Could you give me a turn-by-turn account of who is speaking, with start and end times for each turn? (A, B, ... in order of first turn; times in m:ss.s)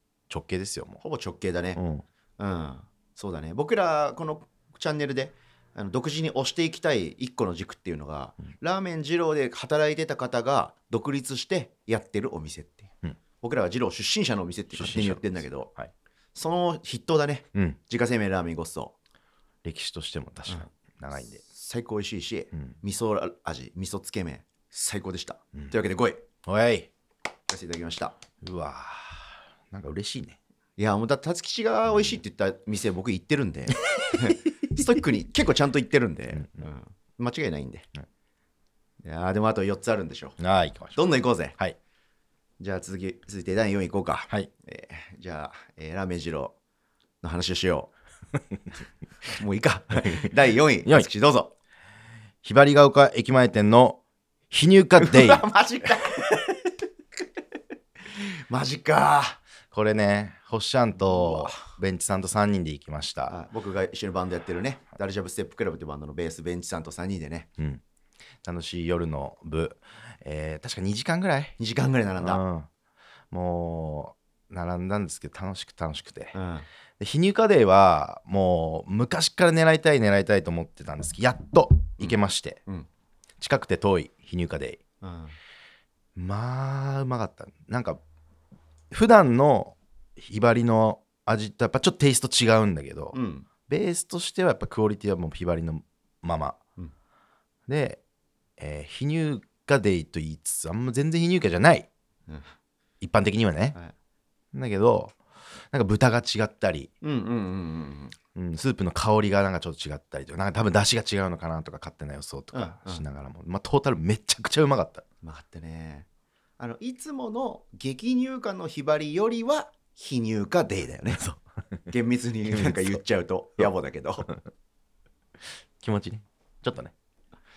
0:00.3-0:01.0 A
0:01.0-0:01.8 B
0:01.8-0:02.0 A
0:02.4-0:15.7 B
0:14.7-0:15.9 A
0:16.4-0:19.0 B
0:17.5-0:17.8 A
0:19.6-0:21.4 A
0:21.4-0:26.2 B
0:26.5-0:26.9 A
0:27.5-0:28.2 B
0:28.4-0:30.4 A
0:30.8-0:37.9 B
0:34.0-0:34.4 A
0:36.4-0:36.6 A
0:39.0-0:40.4 B
0:40.4-0:41.0 A
0:41.0-0:41.6 B
0:42.6-0:46.6 B
0:47.2-0:47.9 B
0:49.3-0:51.5 B
0:50.0-0:50.3 A
0:50.8-0:51.1 A
0:52.4-0:55.4 A
0:55.0-0:56.7 B
0:58.1-0:59.4 B
0:59.7-1:03.4 A
1:01.1-1:01.7 B
1:03.3-1:07.5 B
1:08.4-1:11.6 A
1:11.6-1:12.4 B
1:12.2-1:12.7 A
1:13.3-1:16.3 A
1:16.3-1:16.7 B
1:17.0-1:22.6 A
1:22.0-1:22.9 B
1:23.4-1:24.8 A
1:25.0-1:25.4 B
1:26.2-1:28.0 A
1:28.9-1:33.2 A
1:33.1-1:33.5 B
1:33.7-1:36.6 A
1:37.7-1:38.0 A
1:38.6-1:41.9 A
1:43.0-1:43.8 A
1:44.5-1:45.2 A
1:45.7-1:46.9 A
1:47.0-1:48.2 B
1:48.4-1:55.0 A
1:52.5-1:53.0 B
1:55.2-1:56.1 B
1:56.6-2:01.2 B
2:01.1-2:01.9 A
2:01.9-2:04.4 B
2:02.5-2:03.0 A
2:05.8-2:06.9 A